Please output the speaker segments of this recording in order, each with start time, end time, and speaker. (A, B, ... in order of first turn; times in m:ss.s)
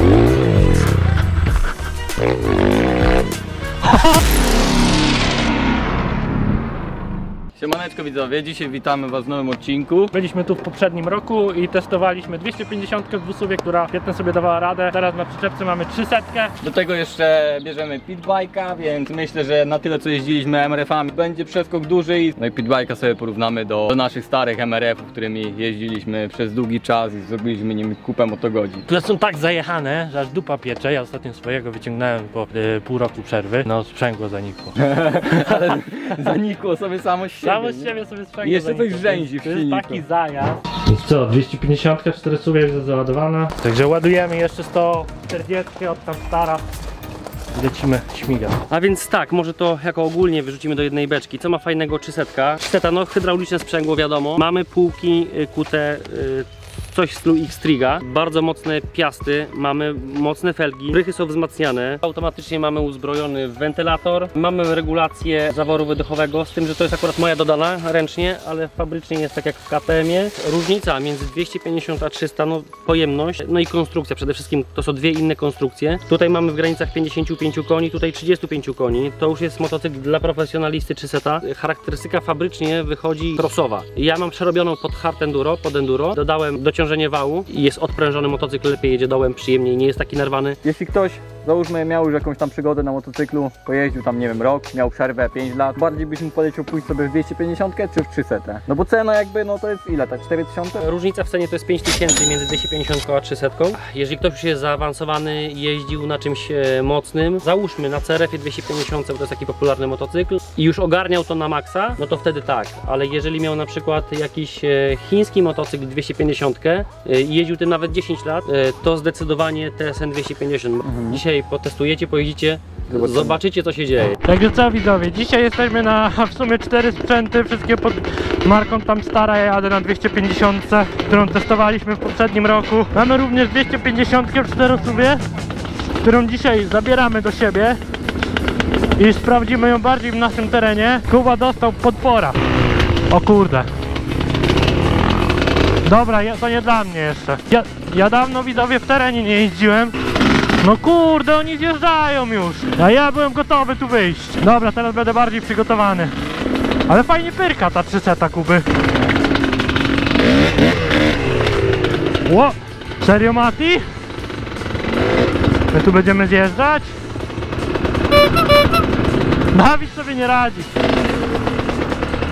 0:07.6-0:10.1 A
0:10.1-0:16.5 B
0:16.6-0:28.9 A
0:28.9-0:34.8 B
0:34.8-0:40.0 A
0:37.4-0:46.6 B
0:47.5-0:48.6 B
0:48.7-1:30.6 C
1:30.6-1:40.8 A
1:40.8-2:04.2 C
2:00.8-2:01.2 A
2:02.9-2:03.4 A
2:04.2-2:15.2 B
2:16.0-2:17.8 B
2:19.0-2:22.4 B
2:23.1-2:23.7 B
2:25.8-2:30.0 B
2:30.6-2:36.1 B
2:36.9-2:38.6 B
2:42.2-2:43.8 B
2:45.7-2:46.9 B
2:49.5-2:50.7 B